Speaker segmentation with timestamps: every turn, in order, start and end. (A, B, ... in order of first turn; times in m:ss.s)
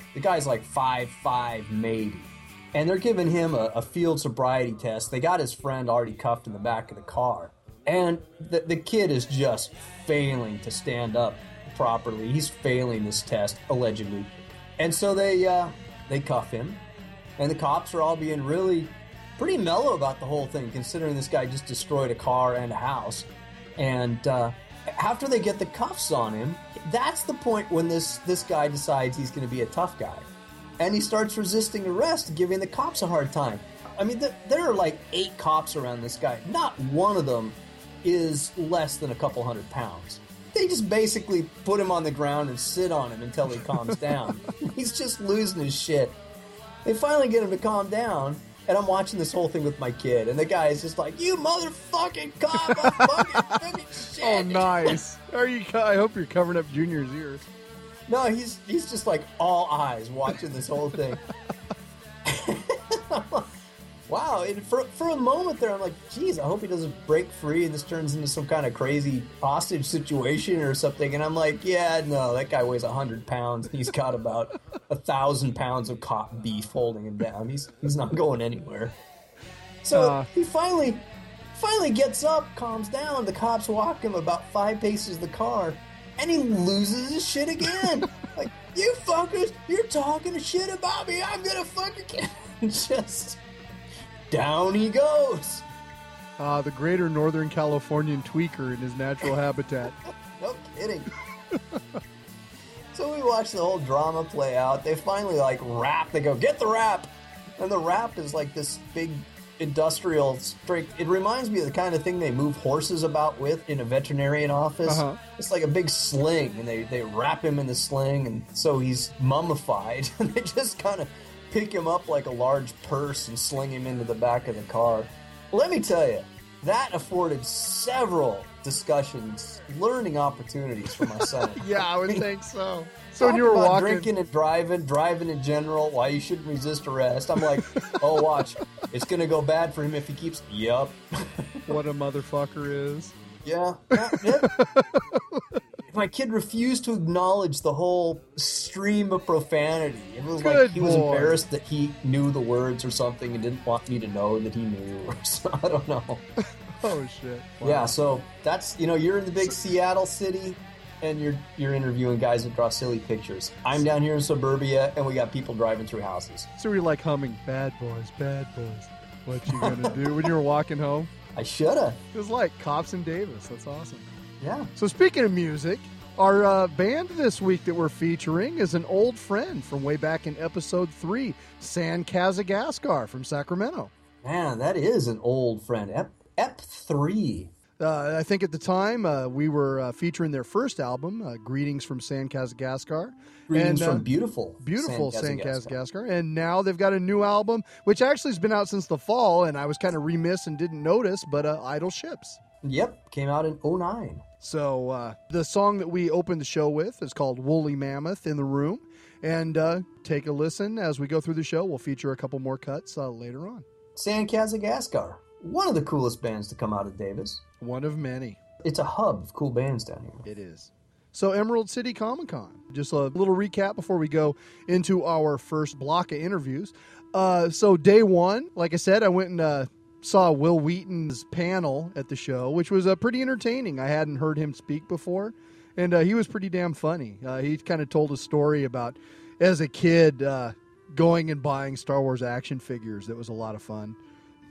0:00.1-0:16.8 A
0:17.4-0:46.2 A
0:46.8-0:55.0 A
0:52.7-0:53.5 B
0:54.2-0:57.4 B
0:58.1-1:01.3 A
1:02.2-1:03.5 A
1:04.1-1:19.0 A
1:19.8-1:33.4 A
1:19.9-1:20.3 B
1:34.3-1:35.6 A
1:36.4-1:40.0 B
1:40.4-1:41.1 A
1:41.5-1:41.8 B
1:42.9-2:12.2 A
1:54.9-1:55.2 B
2:11.6-2:14.1 B
2:13.2-2:21.7 A
2:21.7-2:23.2 B
2:23.4-2:24.5 A
2:24.0-2:25.4 B
2:25.9-2:36.3 A
2:30.4-2:31.4 B
2:36.8-2:38.0 B
2:37.6-2:46.5 A
2:46.6-2:51.1 B
2:49.6-2:50.3 A
2:51.4-2:52.0 A
2:52.1-2:54.2 B
2:54.4-2:54.7 A
2:54.8-3:03.9 B
3:04.2-3:07.5 A
3:07.8-3:14.0 B
3:13.5-3:15.8 A
3:14.6-3:22.4 B
3:22.6-3:24.2 A
3:24.4-3:33.6 B
3:34.0-3:37.4 A
3:37.6-3:38.4 B
3:38.6-3:40.2 A
3:40.2-4:04.0 B